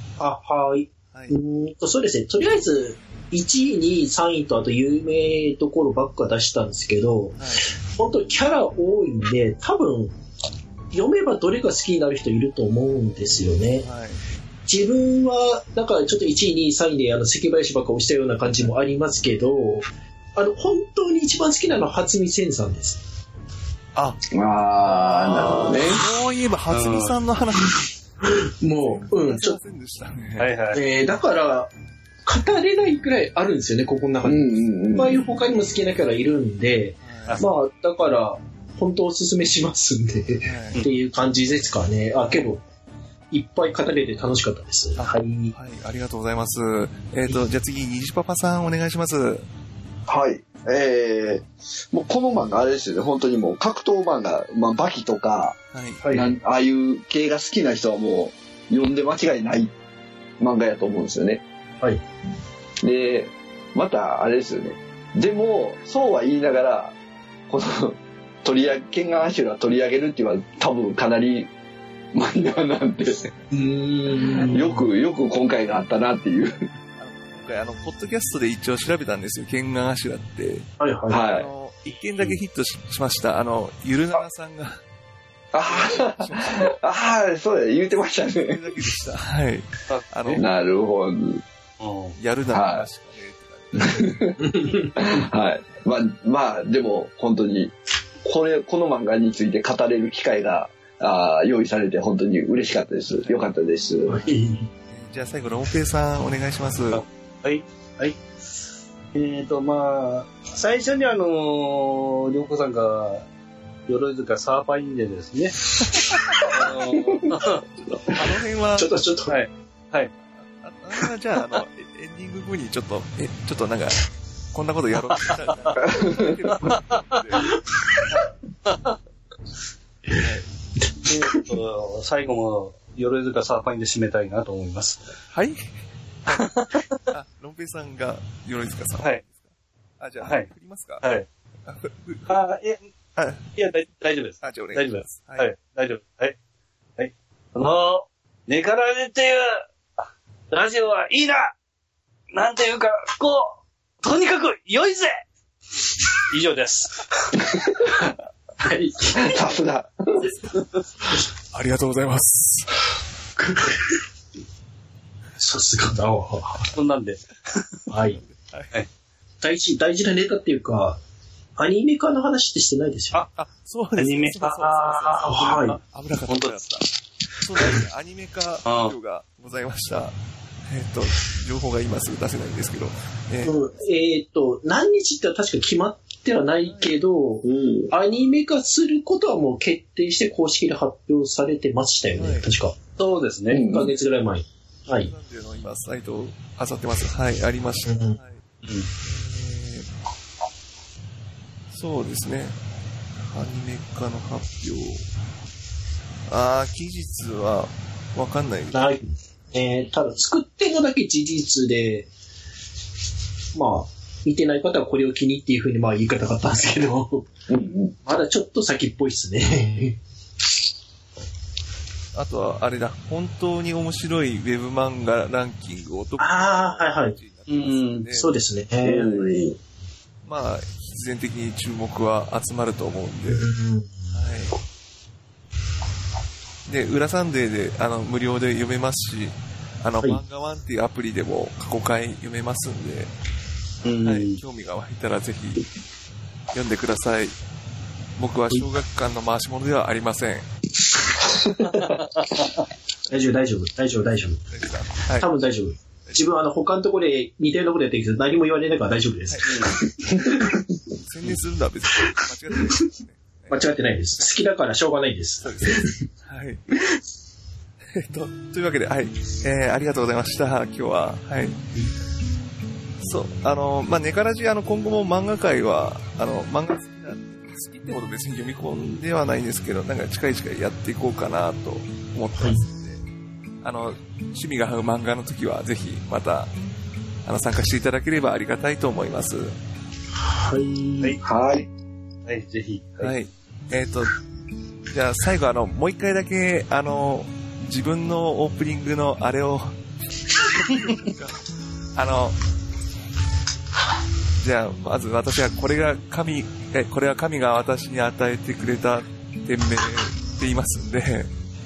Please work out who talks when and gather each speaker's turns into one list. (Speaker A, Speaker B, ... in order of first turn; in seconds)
Speaker A: 0.2-10.1, 10.9-13.9, 14.7-23.0, 28.2-29.6, 30.7-31.7, 32.2-42.6, 43.3-45.5, 56.0-56.3, 73.5-74.9, 80.8-81.2, 94.4-95.1, 104.1-104.7, 118.8-119.3, 130.8-131.5, 158.6-159.4, 163.3-164.0, 165.4-166.7, 167.9-168.2, 169.4-171.0, 171.6-173.2, 175.1-175.8, 183.4-192.8, 193.6-195.1, 197.8-198.2, 208.7-212.1, 213.5-217.3, 218.0-220.0, 226.2-227.2, 228.1-229.2, 233.3-234.2, 253.1-254.5, 255.1-260.6, 263.5-266.1, 290.2-291.2
Speaker B: 1.1-1.4, 7.4-7.7, 13.8-14.2, 23.9-24.3, 24.8-27.8, 28.8-30.5, 37.0-37.4, 40.4-40.8, 45.0-49.5, 55.7-56.0, 77.0-80.7, 81.2-84.8, 85.6-86.8, 88.3-90.5, 92.2-94.2, 104.9-107.0, 118.1-118.9, 120.3-127.5, 130.2-130.4, 135.3-135.7, 136.2-139.5, 140.0-141.0, 141.7-142.4, 143.2-143.5, 144.4-145.5, 161.5-162.8, 168.0-168.8, 173.3-180.1, 180.7-183.6, 186.6-187.0, 192.2-192.4, 195.0-198.4, 199.0-199.9, 201.7-202.6, 203.2-205.0, 206.3-208.8, 222.1-228.4, 230.2-233.5, 234.1-234.6, 236.7-243.1, 244.0-245.7, 246.5-247.4, 248.2-250.5, 254.5-255.3, 256.0-256.3, 259.3-259.7, 261.0-264.5, 265.4-266.6, 267.9-271.6, 273.0-283.0, 283.6-286.5, 287.2-289.6, 293.0-294.2, 294.9-299.8, 300.3-301.4, 301.9-302.4, 304.4-311.3
Speaker C: 24.3-26.0, 34.2-35.2, 50.1-55.6, 56.1-59.7, 60.4-61.4, 62.8-66.9, 67.5-71.5, 72.1-73.3, 74.4-76.6, 81.1-81.5, 85.5-88.6, 90.3-91.4, 92.5-92.8, 93.8-104.2, 117.0-117.3, 125.8-126.3, 159.1-160.3, 187.4-187.9, 193.5-193.9, 217.5-217.9, 228.8-229.6, 291.2-291.7
Speaker D: 26.7-27.1, 30.4-30.8, 89.9-90.4, 91.8-92.2, 106.9-108.2, 109.1-113.2, 113.9-115.6, 116.4-117.6, 119.3-120.1, 126.6-127.2, 128.7-128.9, 131.1-135.0, 136.4-136.8, 141.0-141.3, 142.3-142.8, 143.6-146.3, 147.0-149.6, 150.5-151.5, 152.3-155.2, 156.3-157.4, 166.7-167.8, 173.9-175.7, 176.3-176.6, 178.6-178.9, 193.0-193.7, 198.6-198.9, 227.5-228.1, 243.8-244.4, 251.7-252.4, 259.5-259.8, 292.2-293.1